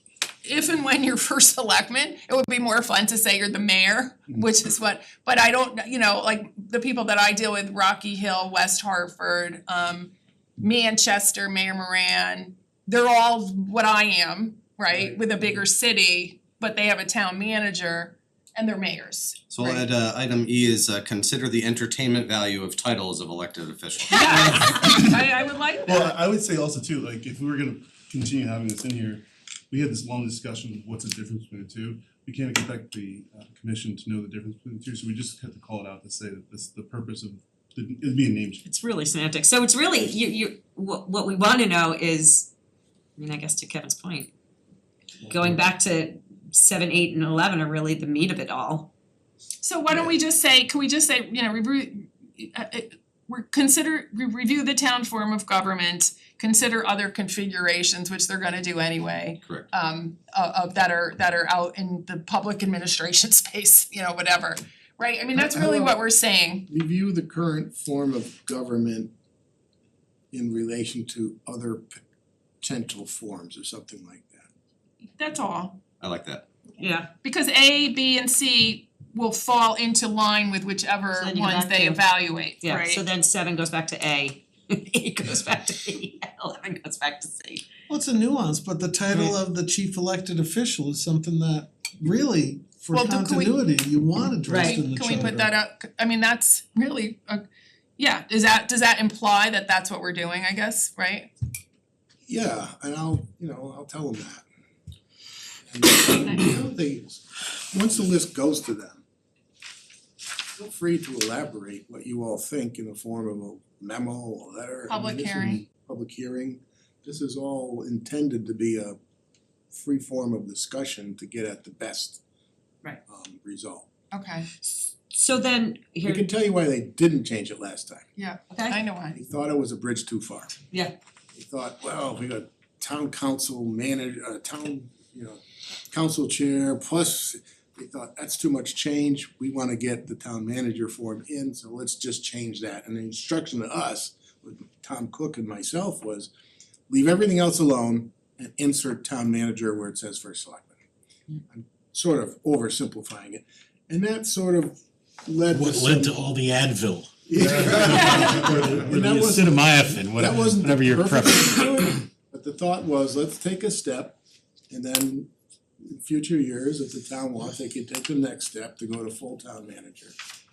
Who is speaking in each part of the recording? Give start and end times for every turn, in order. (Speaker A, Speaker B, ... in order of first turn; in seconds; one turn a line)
Speaker A: 0.4-19.9
Speaker B: 19.5-24.5
Speaker A: 24.1-26.2
Speaker C: 24.3-25.2
Speaker C: 25.9-38.7
Speaker D: 38.6-42.5
Speaker D: 43.2-44.3
Speaker D: 45.3-48.9
Speaker A: 49.6-66.7
Speaker E: 65.3-66.0
Speaker E: 66.7-69.1
Speaker E: 70.3-72.0
Speaker E: 72.6-74.5
Speaker A: 75.2-75.8
Speaker B: 76.0-76.5
Speaker D: 76.8-77.1
Speaker A: 77.2-83.0
Speaker D: 81.2-82.0
Speaker D: 82.6-87.6
Speaker F: 87.9-95.5
Speaker D: 89.1-89.4
Speaker A: 92.9-93.6
Speaker D: 94.5-94.8
Speaker A: 94.6-97.5
Speaker A: 98.0-101.3
Speaker E: 102.3-104.4
Speaker E: 105.7-109.0
Speaker A: 106.2-106.7
Speaker E: 110.6-119.0
Speaker A: 114.9-115.6
Speaker E: 119.7-122.2
Speaker E: 123.1-123.9
Speaker A: 124.1-124.5
Speaker D: 124.7-126.3
Speaker E: 126.0-128.1
Speaker A: 128.2-129.2
Speaker D: 128.5-128.8
Speaker E: 129.1-130.5
Speaker E: 131.3-135.4
Speaker E: 135.9-146.3
Speaker E: 146.9-150.8
Speaker E: 151.5-156.3
Speaker G: 155.5-161.9
Speaker E: 157.3-164.2
Speaker A: 157.9-158.4
Speaker E: 164.7-170.2